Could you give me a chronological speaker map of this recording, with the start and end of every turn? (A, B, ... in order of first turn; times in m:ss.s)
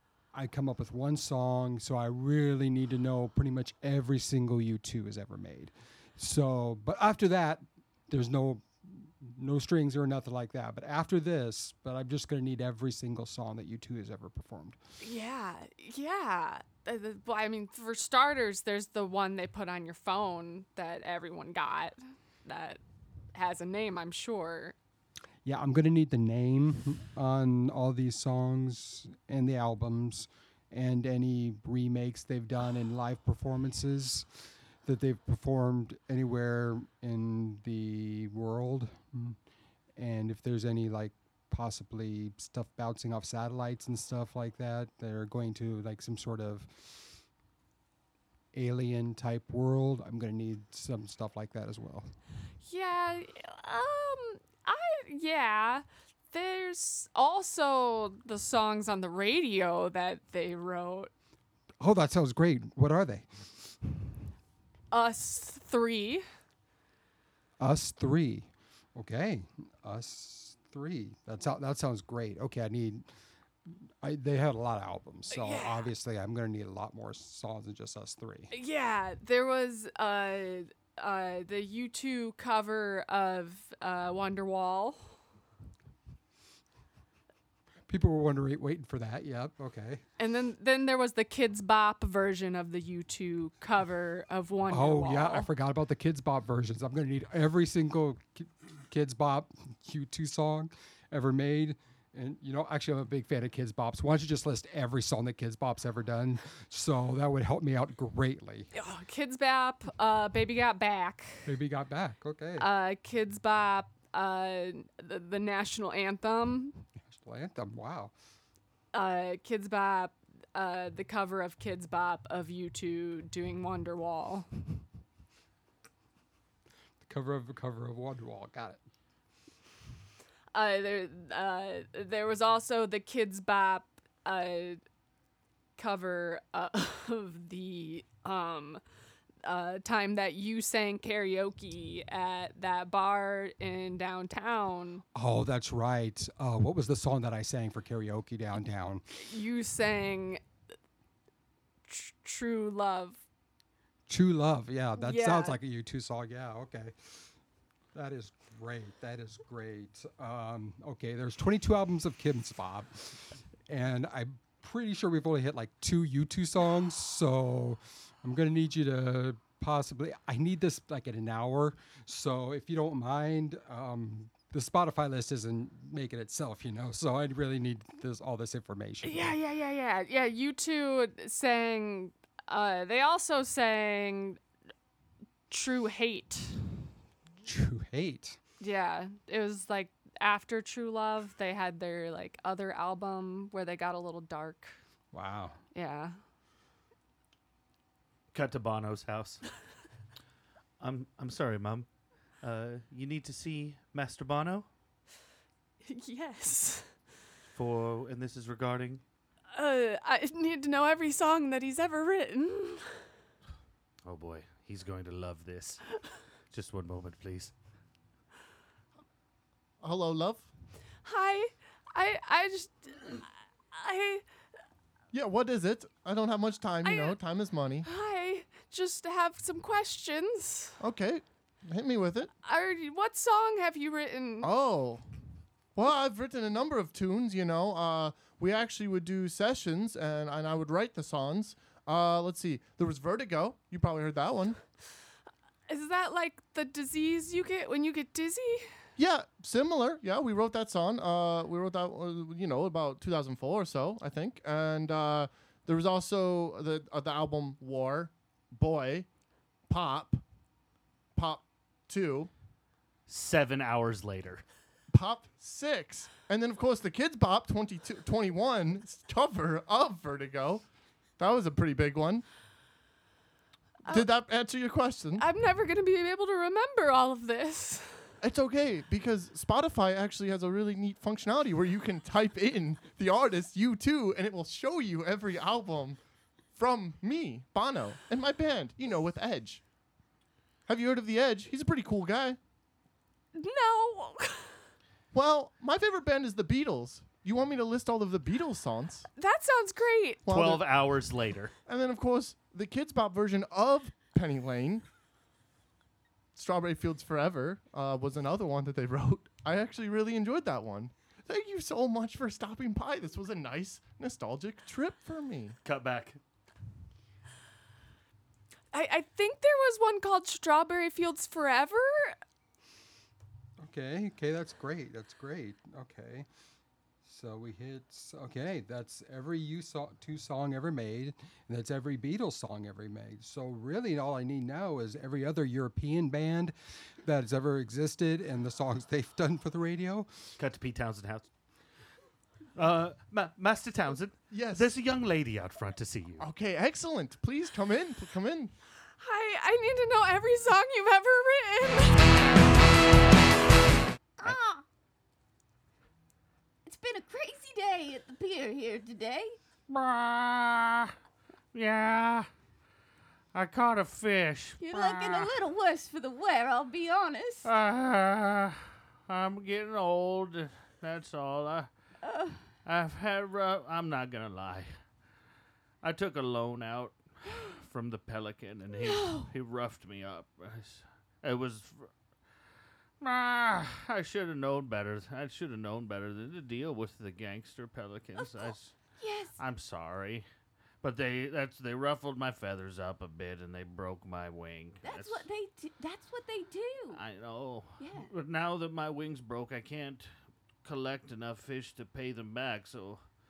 0:00.3-0:14.8 A
0:15.0-0:22.8 B
0:23.3-0:24.8 B
0:25.4-0:39.4 A
0:40.0-0:47.1 A
0:48.5-0:52.1 A
0:52.7-1:01.1 B
1:01.8-1:04.0 A
1:04.9-1:06.2 B
1:07.6-1:13.0 A
1:13.7-1:18.5 A
1:15.3-1:15.9 B
1:18.5-1:25.0 B
1:27.9-1:30.0 A
1:30.2-1:35.5 B
1:34.7-1:48.7 A
1:48.7-1:51.5 B
1:51.5-1:52.7 A
1:52.6-1:56.8 B
1:57.0-1:58.1 A
1:58.9-2:04.5 B
2:07.0-2:08.8 A
2:10.5-2:14.8 B
2:15.8-2:18.8 B
2:19.4-2:25.0 B
2:25.2-2:29.0 A
2:29.1-2:30.4 B
2:31.9-2:33.2 B
2:34.1-2:37.2 A
2:35.0-2:35.6 B
2:37.9-2:59.3 A
2:59.0-3:04.4 B
3:05.5-3:06.6 B
3:07.4-3:08.4 A
3:08.6-3:14.8 B
3:15.1-3:15.6 A
3:15.7-3:16.2 B
3:18.3-3:19.4 C
3:20.8-3:21.9 C
3:22.4-3:24.7 C
3:25.8-3:26.9 B
3:27.5-3:29.0 C
3:29.5-3:33.0 B
3:34.1-3:35.8 C
3:36.5-3:37.5 C
3:39.8-3:40.5 D
3:41.0-3:44.2 B
3:45.1-3:47.9 D
3:46.8-3:47.2 B
3:47.8-3:50.8 B
3:50.8-3:52.3 D
3:52.4-3:54.5 B
3:54.4-3:55.0 D
3:55.8-4:04.6 D
4:05.7-4:08.7 B
4:09.0-4:19.1 D
4:19.7-4:20.2 D
4:21.2-4:22.3 D
4:23.1-4:24.4 C
4:24.9-4:30.7 D
4:31.2-4:32.2 D
4:33.9-4:35.3 D
4:35.2-4:38.0 B
4:38.2-4:46.0 D
4:46.6-4:49.6 D
4:50.7-4:52.4 D
4:53.4-4:54.6 B
4:55.1-4:59.1 D
4:59.2-5:00.2 B
5:00.2-5:00.6 D
5:00.3-5:01.5 C
5:01.7-5:04.8 D
5:06.3-5:15.6 D
5:15.6-5:16.2 C
5:18.7-5:22.2 B
5:23.6-5:26.3 A
5:27.0-5:40.1 A
5:40.4-5:41.3 C
5:42.6-5:46.3 C
5:44.3-5:44.7 D
5:46.2-5:48.5 D
5:49.0-5:52.1 B
5:54.2-5:54.6 E
5:56.6-5:59.4 E
5:59.7-6:00.9 C
6:01.5-6:02.3 C
6:03.3-6:05.3 C
6:04.6-6:07.5 E
6:07.4-6:11.7 C
6:12.0-6:12.4 E
6:12.6-6:14.7 C
6:15.8-6:21.9 C
6:18.7-6:19.3 E
6:23.0-6:28.8 C
6:28.2-6:29.4 E
6:29.4-6:30.3 C
6:30.8-6:35.3 C
6:34.8-6:37.0 E
6:36.9-6:40.1 C
6:37.8-6:38.1 E
6:40.6-6:43.0 C